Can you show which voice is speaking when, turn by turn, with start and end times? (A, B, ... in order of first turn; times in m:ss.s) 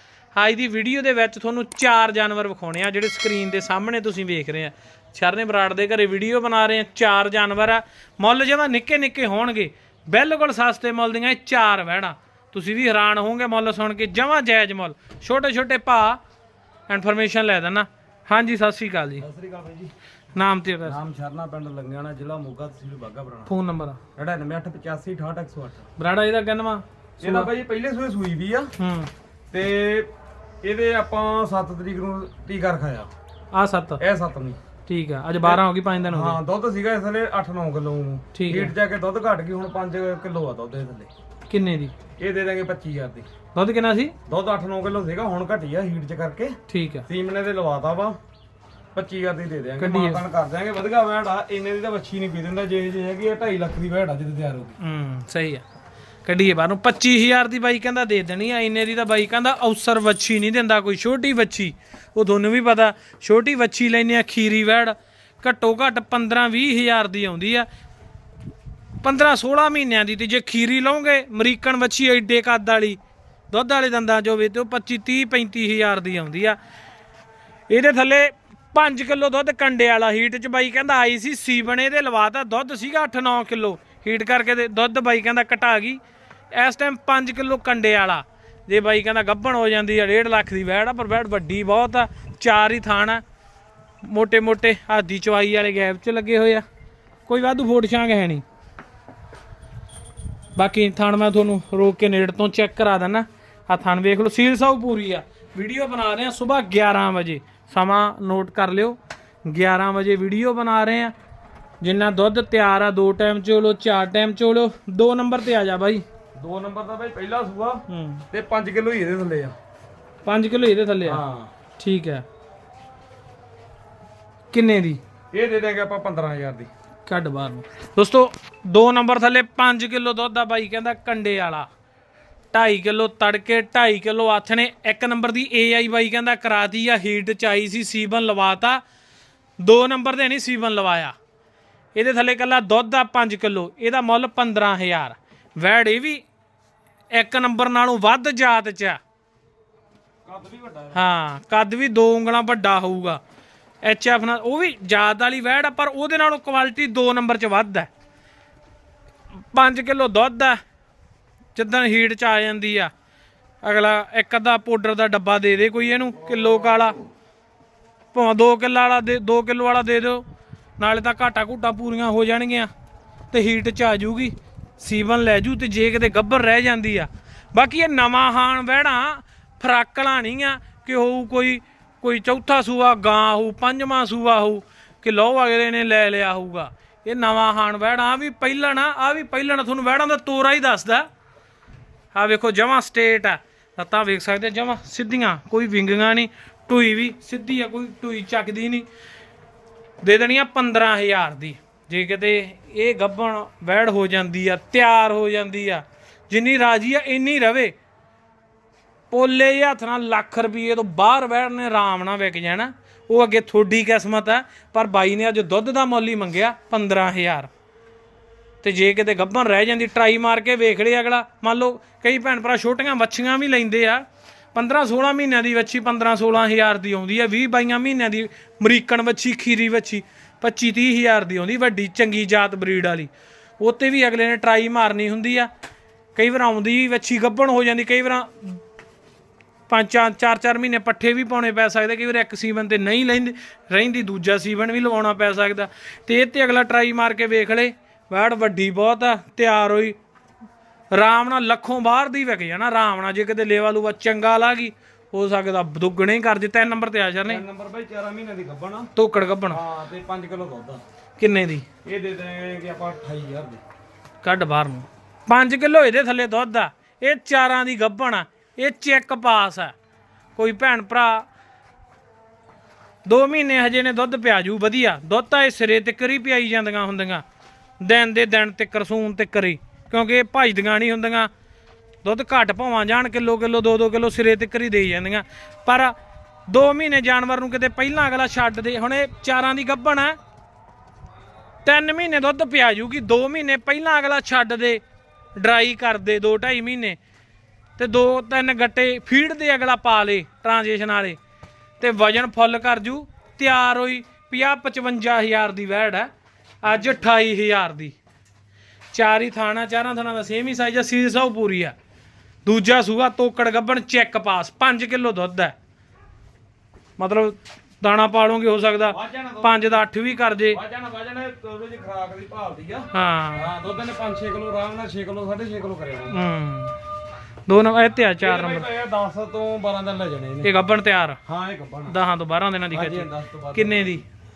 0:00.3-0:16.2 A
0:16.9-0:19.2 A
0:19.2-0:19.9 B
0:20.3-0:21.0 A
0:20.8-0:23.5 B
0:23.5-0:24.0 A
0:24.2-0:25.8 B
0:26.0-0:27.5 A
0:27.2-0:28.7 B
0:28.8-0:29.1 A
0:29.5-0:30.1 B
0:30.6-0:33.1 B
0:33.5-0:34.0 A
0:34.0-0:34.6 B
0:34.9-0:36.4 A
0:35.4-0:41.1 B
0:38.3-0:38.7 A
0:41.5-0:41.9 A
0:42.2-0:43.3 B
0:43.5-0:44.1 A
0:44.2-0:48.2 B
0:46.7-0:47.0 A
0:48.9-0:54.8 B
0:49.8-0:50.2 A
0:54.8-0:55.6 A
0:56.2-1:07.7 A
1:09.0-1:13.0 A
1:13.5-1:16.6 A
1:17.7-1:26.0 A
1:26.5-1:33.2 A
1:34.0-1:36.6 A
1:37.2-1:38.4 A
1:40.6-1:51.1 A
1:51.8-1:56.0 A
1:56.4-1:59.5 B
1:57.9-1:58.2 A
2:00.2-2:01.2 A
2:01.0-2:01.5 B
2:01.8-2:02.2 A
2:04.5-2:05.0 A
2:05.3-2:06.7 B
2:07.0-2:11.7 A
2:12.5-2:18.8 A
2:19.6-2:21.1 A
2:21.9-2:26.2 A
2:27.1-2:29.0 A
2:30.2-2:31.0 B
2:30.9-2:33.2 A
2:33.8-2:37.9 A
2:39.5-2:40.6 A
2:41.5-2:42.9 A
2:43.6-2:47.0 A
2:48.1-2:50.2 A
2:50.8-2:52.7 A
2:53.3-3:11.1 A
3:12.1-3:18.8 A
3:20.0-3:27.8 A
3:29.1-3:37.5 A
3:38.6-3:55.5 A
3:56.2-3:58.6 A
3:59.7-4:10.0 A
4:10.9-4:17.4 A
4:17.3-4:18.9 B
4:19.0-4:19.6 A
4:19.5-4:20.8 B
4:21.2-4:21.6 A
4:21.8-4:23.6 B
4:24.2-4:29.7 A
4:30.4-4:31.3 A
4:33.0-4:37.2 A
4:37.8-4:41.3 A
4:42.0-4:45.9 A
4:46.5-4:50.2 A
4:51.6-4:54.8 A
4:55.4-4:57.0 A
4:57.8-5:01.2 A
5:01.8-5:06.1 A
5:06.6-5:08.0 A
5:08.9-5:11.7 A
5:12.4-5:15.5 A
5:17.0-5:20.6 A
5:18.9-5:19.8 B
5:20.5-5:26.2 B
5:22.9-5:23.5 A
5:26.1-5:26.8 A
5:27.4-5:28.7 A
5:28.2-5:30.5 B
5:30.4-5:31.2 A
5:31.2-5:32.0 B
5:31.9-5:34.0 A
5:32.7-5:34.0 B